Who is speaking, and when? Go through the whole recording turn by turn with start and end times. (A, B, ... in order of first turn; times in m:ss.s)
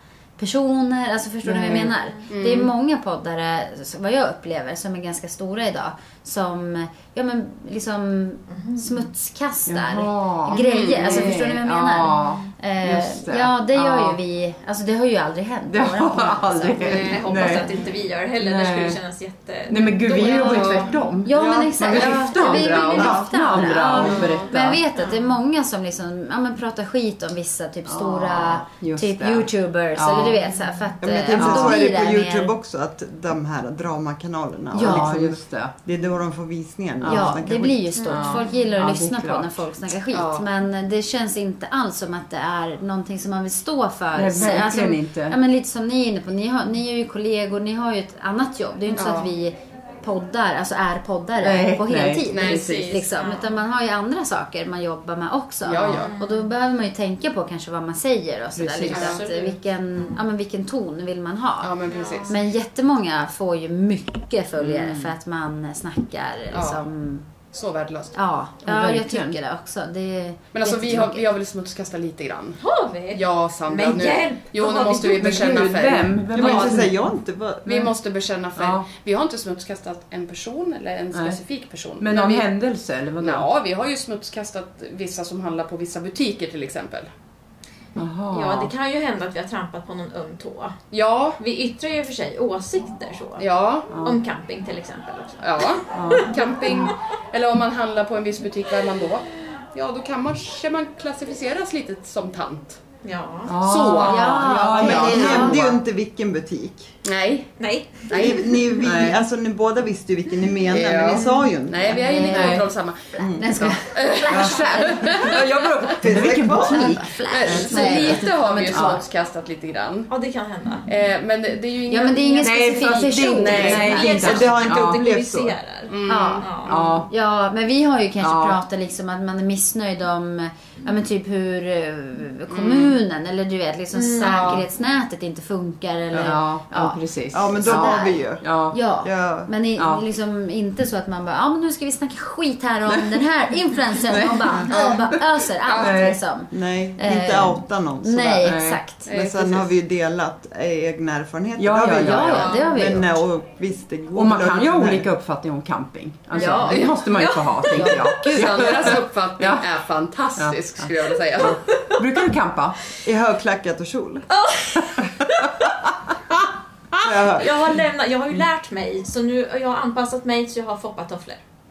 0:00.4-0:17.6 A
0:01.4-0:01.9 B
0:01.7-0:02.7 C
0:08.5-0:09.0 D
0:09.7-0:14.2 B
0:10.5-0:11.4 C
0:12.1-0:12.4 D
0:15.7-0:17.7 B
0:16.8-0:21.0 D
0:18.4-0:19.0 B
0:19.7-0:24.8 B
0:20.1-0:32.6 A
0:20.4-0:21.0 C
0:21.3-0:23.3 E
0:23.9-0:24.5 C
0:24.1-0:24.4 D
0:25.0-0:25.3 D
0:27.9-0:30.5 B
0:31.0-0:38.0 E
0:31.3-0:31.9 B
0:34.7-0:35.2 A
0:34.8-0:35.7 B
0:37.0-0:37.4 B
0:37.0-1:07.3 A
0:38.0-0:38.6 D
0:38.1-0:39.6 B
0:40.1-0:40.5 C
0:44.1-0:45.4 B
0:48.9-0:49.3 C
0:51.4-0:52.9 B
0:52.3-0:52.7 C
0:52.4-0:53.6 D
0:55.6-0:56.1 C
0:55.9-0:56.5 D
0:58.6-0:59.2 B
0:58.9-1:00.2 D
0:58.9-0:59.3 C
1:01.6-1:02.4 C
1:01.9-1:02.4 D
1:04.6-1:05.2 B
1:06.5-1:06.9 C
1:07.5-1:08.2 C
1:08.1-1:11.3 A
1:08.6-1:09.4 B
1:10.5-1:16.9 C
1:12.6-1:15.9 D
1:15.1-1:17.0 B
1:16.3-1:17.9 E
1:17.6-1:22.5 C
1:18.6-1:18.9 B
1:21.1-1:21.4 B
1:22.0-1:23.5 B
1:23.2-1:27.1 C
1:28.0-1:28.7 B
1:28.3-1:30.8 D
1:30.9-1:31.4 C
1:31.4-1:36.7 D
1:33.4-1:33.9 C
1:33.9-1:34.2 B
1:35.4-1:42.8 C
1:35.9-1:36.3 B
1:43.0-1:43.6 D
1:43.5-1:45.6 B
1:43.6-1:45.5 C
1:44.0-1:45.8 A
1:44.8-1:47.0 E
1:47.0-1:47.5 C
1:47.6-1:49.1 D
1:48.1-1:48.5 C
1:48.1-1:52.0 E
1:48.8-1:49.2 B
1:50.7-1:55.9 C
1:51.8-1:55.4 A
1:52.3-1:52.7 B
1:53.2-1:54.7 E
1:54.3-1:57.1 B
1:56.0-1:58.2 E
1:56.6-1:58.9 A
1:57.2-2:00.1 C
1:57.7-1:58.1 B
1:58.7-1:59.0 B
2:00.1-2:00.9 D
2:00.9-2:04.4 C
2:01.9-2:04.3 A
2:02.4-2:05.1 B
2:03.6-2:06.8 D
2:04.1-2:05.6 E
2:05.9-2:07.1 C
2:06.1-2:06.5 A
2:06.7-2:07.1 B
2:07.1-2:29.1 A
2:08.2-2:08.6 B
2:12.5-2:13.0 C
2:13.9-2:14.6 D
2:14.2-2:14.6 C
2:16.1-2:18.8 B
2:17.3-2:18.4 E
2:19.0-2:19.5 E
2:19.8-2:20.0 B
2:24.1-2:24.7 B
2:24.7-2:25.1 C
2:25.6-2:26.1 C
2:25.8-2:26.2 B
2:26.5-2:35.1 E
2:28.4-2:28.8 B
2:29.0-2:29.7 C
2:31.6-2:32.6 B
2:32.0-2:33.2 A
2:32.4-2:32.8 C
2:34.1-2:39.6 B
2:36.3-2:37.0 A
2:36.4-2:37.0 C
2:37.0-2:38.6 D
2:37.7-2:38.1 A
2:38.2-2:41.8 C
2:41.4-2:42.8 B
2:43.0-2:44.3 E
2:44.3-2:45.5 D
2:47.0-2:47.8 E
2:47.4-2:51.4 D